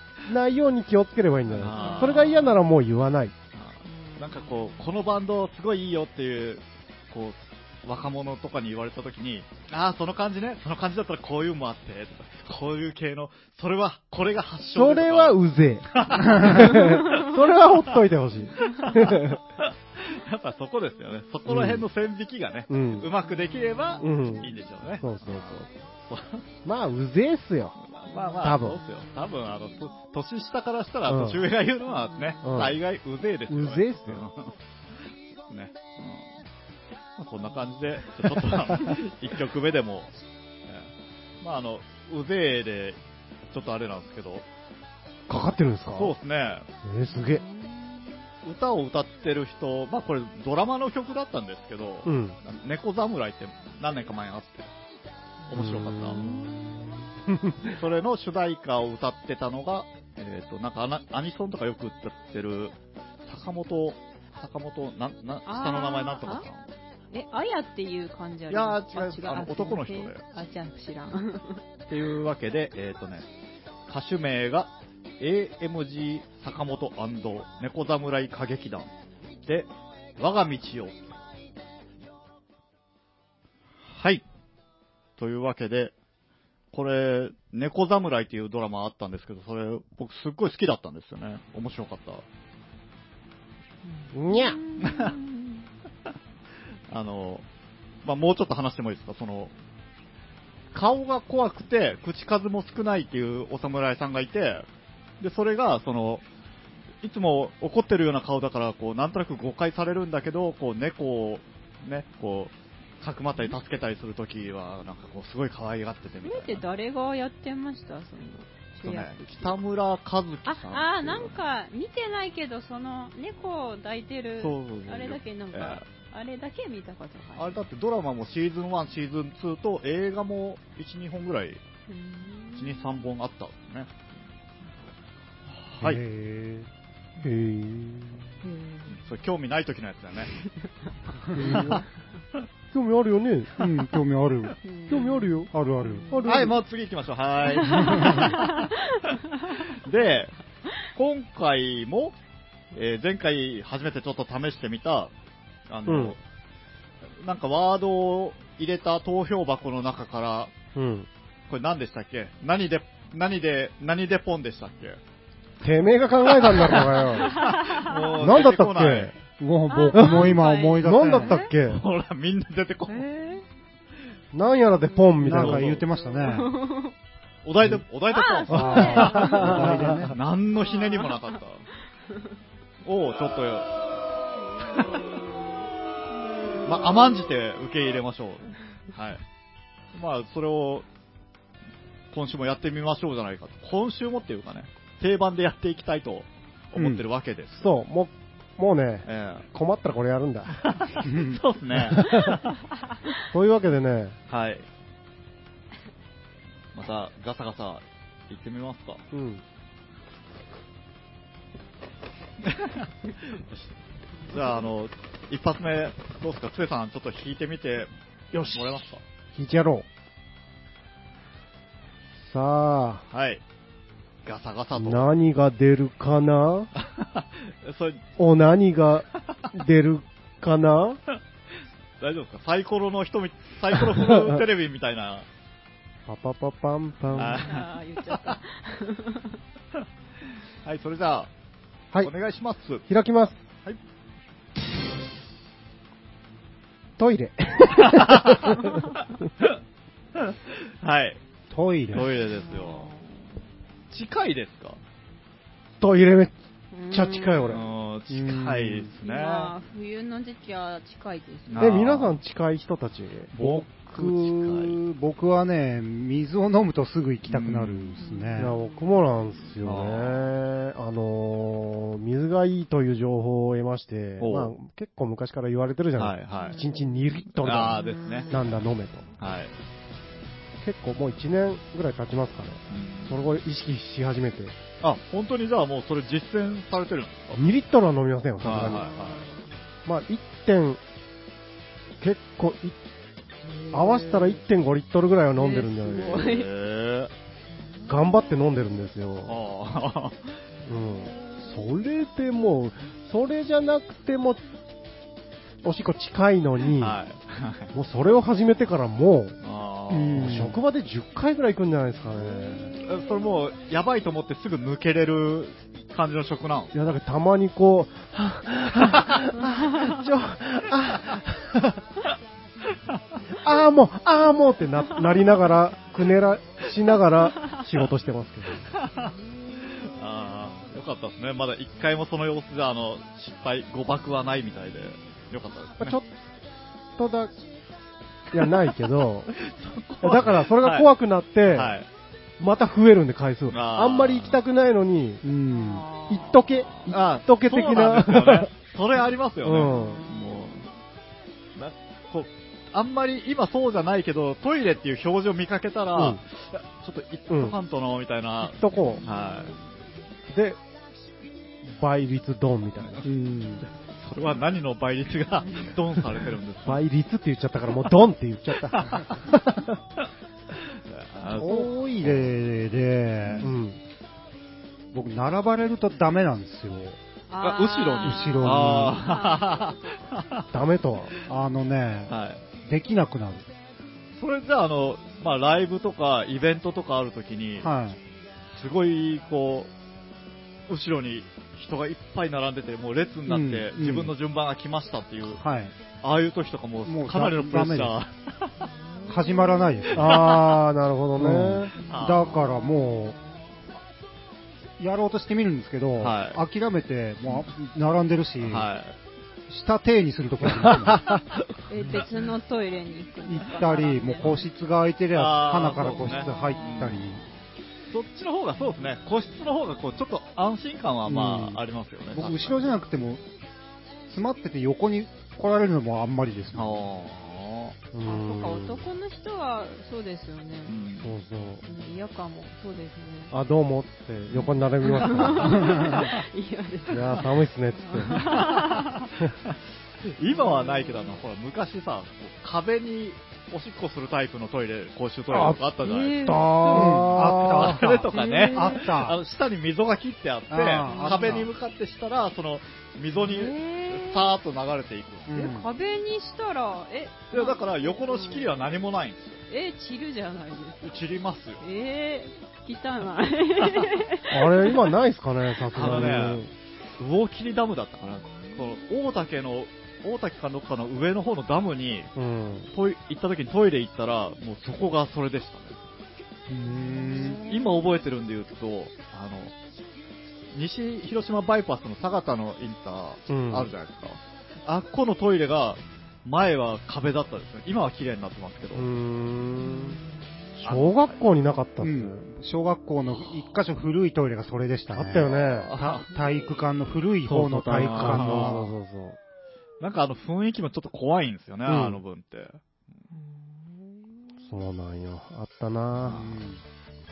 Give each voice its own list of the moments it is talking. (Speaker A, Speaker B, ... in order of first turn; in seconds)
Speaker A: 0.2-3.3, 14.7-19.4, 21.5-21.8, 22.7-23.1, 24.0-25.6, 26.6-27.8, 28.4-28.8, 31.1-31.4, 32.4-32.8, 33.5-34.2, 45.3-46.1, 46.8-47.4, 52.0-52.4, 55.5-57.8, 94.1-94.6, 137.2-138.4, 141.4-141.8, 142.7-143.5, 144.9-145.5, 146.1-146.6, 155.8-156.2, 160.8-161.1, 165.6-169.2, 169.9-171.8, 174.3-175.7, 178.6-180.1, 197.5-200.7, 201.8-202.4, 203.3-204.2, 209.1-209.4, 218.3-218.8, 219.3-219.8, 222.2-223.0, 224.8-226.7, 228.2-231.0, 233.9-234.4, 236.1-237.4, 242.9-243.4, 247.0-249.0, 255.8-256.3, 256.9-257.6, 261.6-263.3, 268.4-279.1, 280.6-284.6, 287.3-288.9, 289.9-290.8, 292.0-292.8, 293.7-296.3, 297.9-299.4, 300.6-304.4, 305.6-307.0, 307.7-309.4, 310.2-312.8, 316.7-321.8, 323.4-328.7, 335.8-336.1, 337.0-337.3, 338.3-339.3, 340.0-341.8, 342.4-345.2, 346.1-348.5, 349.4-350.1, 356.0-356.2, 357.3-357.6, 358.4-359.0, 360.3-360.6, 361.7-363.1, 366.6-369.8, 373.4-373.8, 380.5-381.1, 399.9-401.7, 427.9-428.9, 431.0-431.7, 433.3-435.8, 436.9-438.5, 445.3-445.6, 446.2-447.7, 464.3-466.5, 472.2-472.7, 483.3-483.7, 488.7-490.0, 490.6-492.2, 494.9-495.7, 497.2-499.2, 501.7-502.0, 504.4-506.2
Speaker B: 1.6-2.5, 3.5-15.4, 15.9-17.4, 18.6-26.4, 27.8-34.5, 35.5-36.3, 37.2-40.1, 41.4-43.0, 43.5-44.5, 45.9-46.7, 48.4-54.7, 55.5-56.3, 57.7-66.7, 68.5-70.2, 71.9-73.3, 73.9-78.9, 79.5-81.0, 83.9-84.2, 85.2-86.0, 86.7-92.2, 94.8-95.2, 96.9-97.5, 98.0-99.5, 100.7-104.7, 105.2-106.2, 107.0-116.6, 118.8-121.4, 124.4-125.8, 127.3-131.6, 132.5-133.9, 135.6-136.0, 138.9-140.3, 141.5-141.8, 146.2-148.7, 149.6-150.3, 150.9-152.2, 152.7-155.1, 155.7-156.2, 157.2-160.5, 161.5-165.0, 166.3-169.2, 171.6-173.1, 175.3-175.8, 177.4-181.7, 182.8-183.7, 184.6-185.0, 186.6-189.2, 189.9-190.8, 192.1-197.7, 199.1-199.5, 200.6-202.4, 204.3-204.7, 206.7-209.0, 212.4-213.7, 214.3-217.9, 218.5-219.0, 223.1-223.4, 224.2-225.1, 226.8-228.0, 232.0-235.2, 237.1-238.4, 240.6-241.3, 242.0-242.8, 247.8-248.7, 250.2-251.2, 251.9-252.9, 253.9-254.8, 257.5-259.5, 261.5-262.2, 263.3-264.8, 267.3-268.0, 269.6-270.3, 274.2-274.5, 276.0-276.6, 277.4-278.3, 279.2-279.5, 282.7-283.2, 284.8-287.4, 288.4-289.3, 296.1-297.1, 299.2-300.3, 306.8-307.7, 309.4-310.5, 312.8-316.7, 328.8-329.1, 329.8-336.0, 339.3-340.9, 341.5-341.9, 343.5-344.4, 346.9-350.7, 351.6-359.6, 363.8-366.8, 368.7-369.1, 370.6-372.3, 373.2-373.5, 377.4-380.5, 382.1-382.4, 384.1-387.7, 388.5-389.7, 390.7-395.4, 396.0-398.7, 400.0-400.4, 401.8-402.4, 406.0-406.4, 407.2-407.5, 408.4-409.0, 410.5-411.4, 415.1-417.0, 417.9-422.7, 426.5-427.8, 430.7-431.1, 434.3-435.3, 439.4-455.3, 457.3-459.4, 460.8-461.6, 465.7-466.4, 467.0-472.1, 472.7-475.8, 477.4-479.5, 480.5-488.9, 490.6-491.2, 495.1-496.1, 497.8-498.7, 499.8-502.6, 506.0-506.4
Speaker C: 1.6-2.6, 3.9-4.9, 32.2-32.7, 47.1-48.1, 55.4-56.8, 65.5-66.5, 67.1-71.6, 93.9-95.7, 116.2-119.6, 120.5-127.5, 131.9-133.0, 138.4-139.0, 144.6-146.5, 147.4-149.7, 167.2-168.0, 169.7-171.5, 172.9-173.4, 176.2-176.9, 178.1-179.8, 180.7-181.2, 184.5-185.3, 186.4-186.9, 237.5-239.4, 252.2-253.3, 256.7-257.7, 259.0-261.7, 268.0-269.2, 276.4-277.0, 277.8-278.5, 288.5-289.5, 293.4-294.4, 295.3-296.5, 297.8-298.3, 345.5-346.6, 349.7-350.7, 359.0-359.5, 377.3-380.1, 398.9-399.8, 401.8-403.4, 411.7-414.5, 415.8-417.4, 428.0-430.8, 431.6-433.3, 434.8-439.0, 440.2-441.2, 445.8-446.9, 448.1-448.9, 450.8-451.4, 453.1-454.3, 455.3-458.6, 459.5-460.9, 461.6-464.9, 465.8-466.1, 468.3-468.7, 476.7-477.7, 489.6-490.1, 496.1-496.7, 503.2-503.9
Speaker D: 135.8-136.7, 141.3-141.8, 143.6-144.6, 145.5-146.1, 147.6-148.3, 169.4-171.3, 175.2-176.5, 178.5-180.2, 196.8-197.0, 201.1-201.4, 251.5-252.1, 258.1-258.9, 263.4-268.6, 309.9-310.6, 345.2-345.9, 363.0-363.6, 371.3-373.5, 374.9-377.0, 378.0-379.0, 381.3-383.5, 387.6-388.0, 393.3-394.1, 395.4-395.8, 396.8-398.0, 399.1-403.2, 404.8-408.7, 409.5-411.1, 413.2-417.2, 421.1-423.2, 424.1-426.8, 435.6-435.9, 446.3-449.2, 450.5-451.5, 455.3-455.7, 476.5-477.4, 491.8-498.7, 506.0-506.6